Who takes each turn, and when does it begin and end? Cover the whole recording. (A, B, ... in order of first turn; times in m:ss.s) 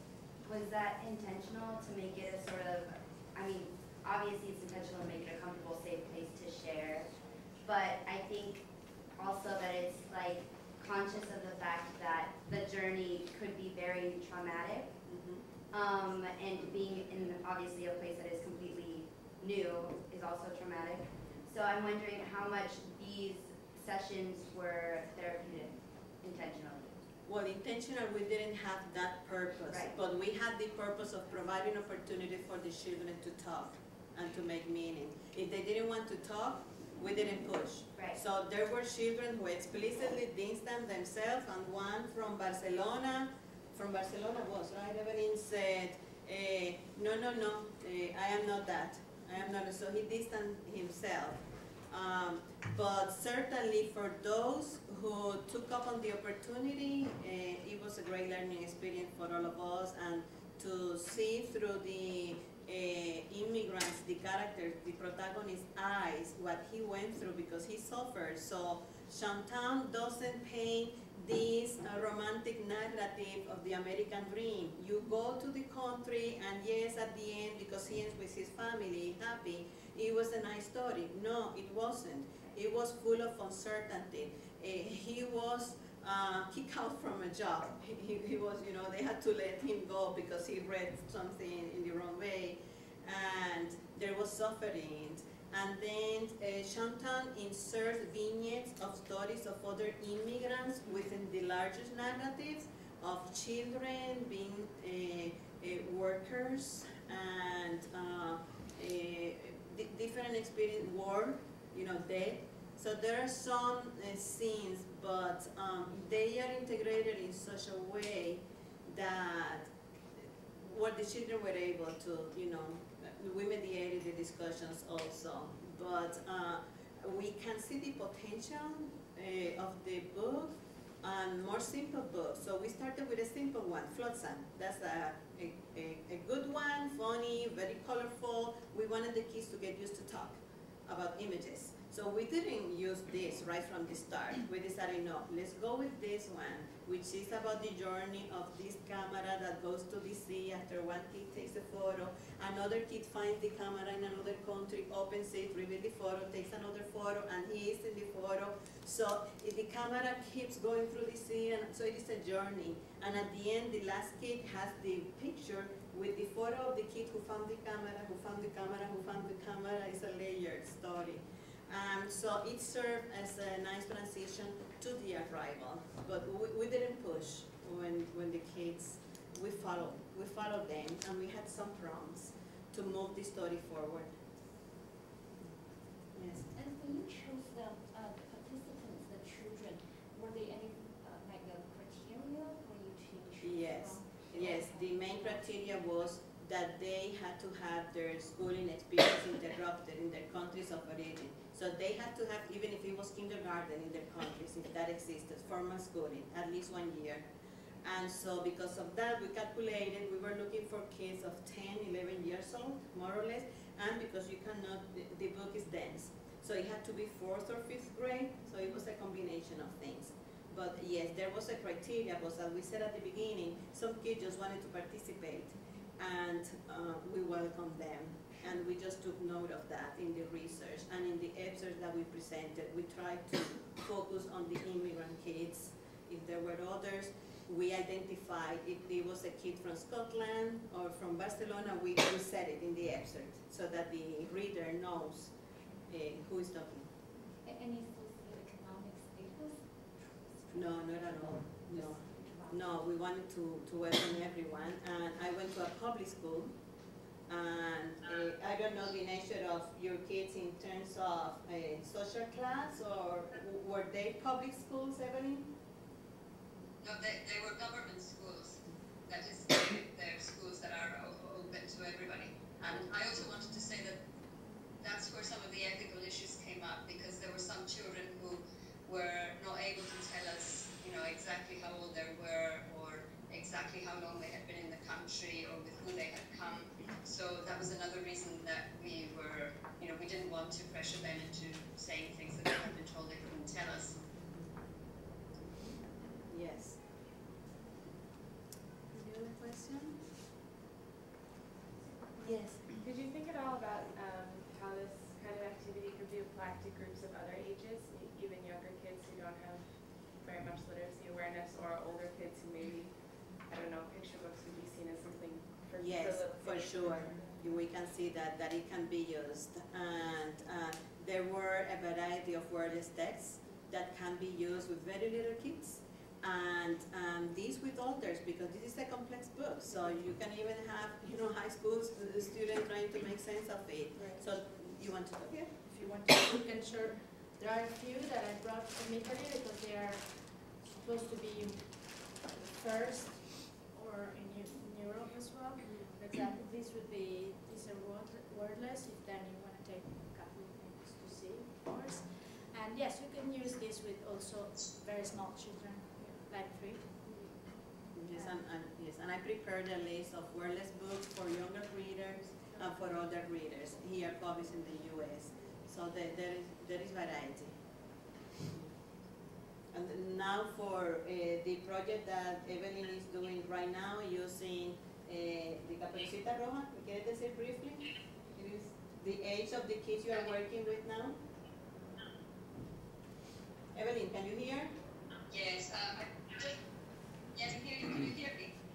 0:00.4-0:14.9 A
0:15.0-0:15.4 B
0:15.7-0:27.0 A
0:27.2-3:04.2 B
0:29.7-0:29.9 A
3:06.1-3:06.4 B
3:06.5-3:15.5 C
3:13.4-3:27.2 B
3:27.8-4:05.3 B
4:05.9-4:06.9 B
4:07.2-4:12.8 C
4:10.5-4:16.5 B
4:17.3-4:25.5 B
4:26.8-4:34.0 D
4:34.8-4:54.0 D
4:56.3-4:56.8 B
4:58.9-5:00.0 B
5:02.2-5:02.7 B
5:02.7-5:17.4 E
5:15.8-5:35.5 B
5:34.0-5:34.2 E
5:35.6-5:57.2 F
5:57.9-6:07.6 B
6:08.5-6:08.7 B
6:09.7-6:21.2 B
6:23.7-6:24.7 B
6:25.3-6:26.6 D
6:27.3-6:28.5 D